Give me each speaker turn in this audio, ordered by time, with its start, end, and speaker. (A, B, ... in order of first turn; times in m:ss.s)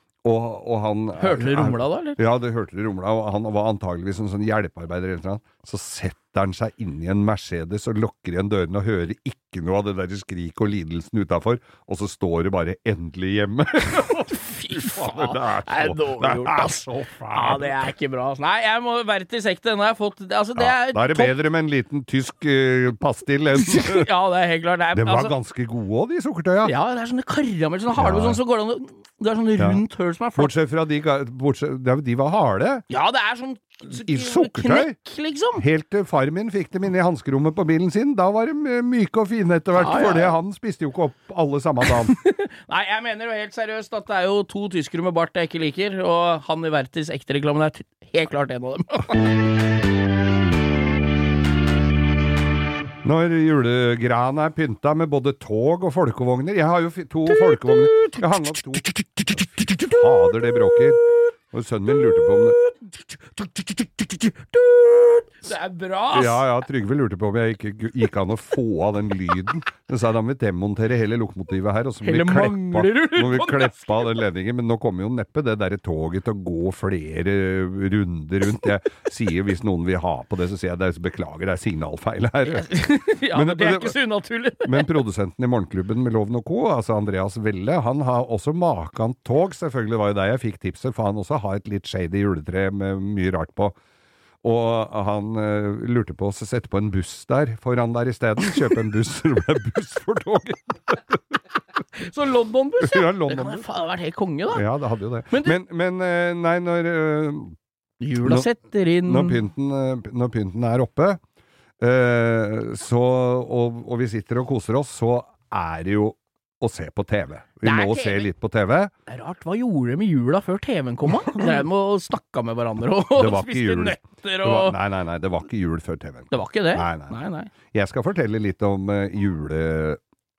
0:00.2-0:17.8 A
0:01.2-0:02.2 B
0:13.9-0:21.3 B
0:20.6-0:24.1 A
0:23.5-0:25.3 B
0:24.9-0:26.7 A
0:26.6-0:30.5 B
0:27.9-0:28.4 A
0:30.4-0:32.8 A
0:32.9-0:35.6 B
0:33.9-0:34.9 A
0:35.6-0:42.1 A
0:39.8-0:40.3 B
0:41.9-0:49.3 B
0:53.0-1:02.6 A
0:57.2-1:01.3 B
1:01.9-1:06.4 B
1:06.1-1:22.8 A
1:12.0-1:14.0 B
1:22.5-1:24.9 B
1:23.3-1:24.0 A
1:24.6-1:33.8 A
1:34.4-1:41.4 A
1:41.9-1:44.6 B
1:42.8-1:43.6 A
1:44.5-1:47.6 A
1:45.3-1:45.6 B
1:48.0-1:49.4 B
1:48.2-1:48.5 A
1:49.0-1:51.2 A
1:51.8-1:58.9 A
1:57.6-1:58.3 B
1:59.1-2:04.8 B
2:03.1-2:10.0 A
2:06.3-2:07.5 B